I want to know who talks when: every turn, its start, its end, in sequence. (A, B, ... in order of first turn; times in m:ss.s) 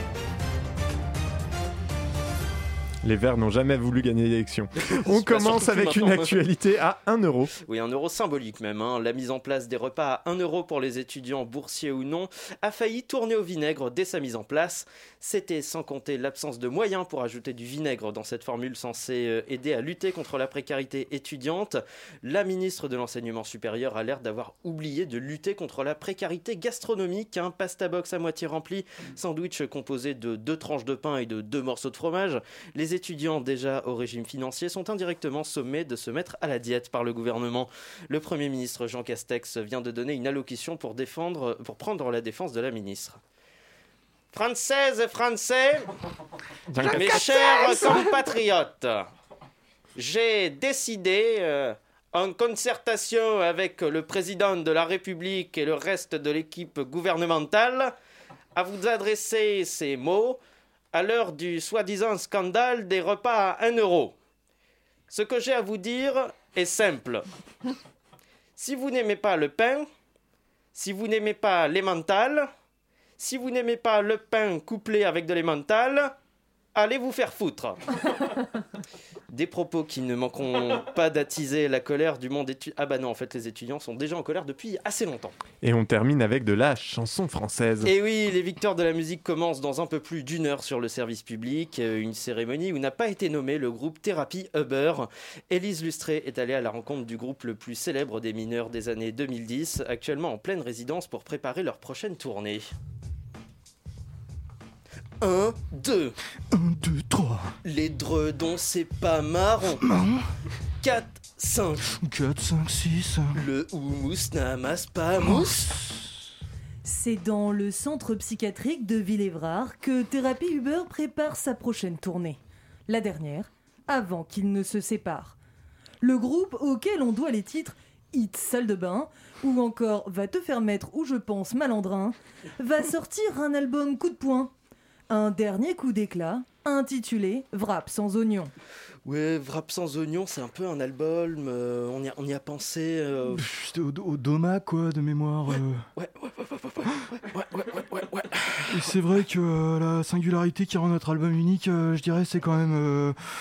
0:03.0-0:07.5 A
0:04.8-0:06.4 B
0:07.6-0:43.2 B
0:44.3-0:45.9 B
0:46.7-0:47.3 A
0:46.8-0:47.9 C
0:46.9-0:49.1 B
0:50.0-0:57.9 B
0:58.5-1:00.4 B
1:00.9-1:04.1 B
1:05.1-1:07.2 B
1:08.6-1:09.8 B
1:10.7-1:12.5 B
1:13.2-1:16.1 B
1:16.7-1:17.8 B
1:19.3-1:25.4 B
1:25.6-1:27.9 A
1:27.8-1:42.7 B
1:45.2-1:46.2 B
1:46.5-1:47.5 C
1:47.6-1:49.8 B
1:49.8-1:50.2 C
1:50.8-1:51.9 B
1:51.9-1:53.4 C
1:53.3-1:55.8 B
1:55.2-1:55.5 C
1:56.8-2:05.4 D
2:06.0-2:14.5 D
2:15.1-2:18.5 D
2:19.0-2:23.4 B
2:23.3-2:25.8 C
2:26.0-2:28.9 B
2:28.7-2:33.2 C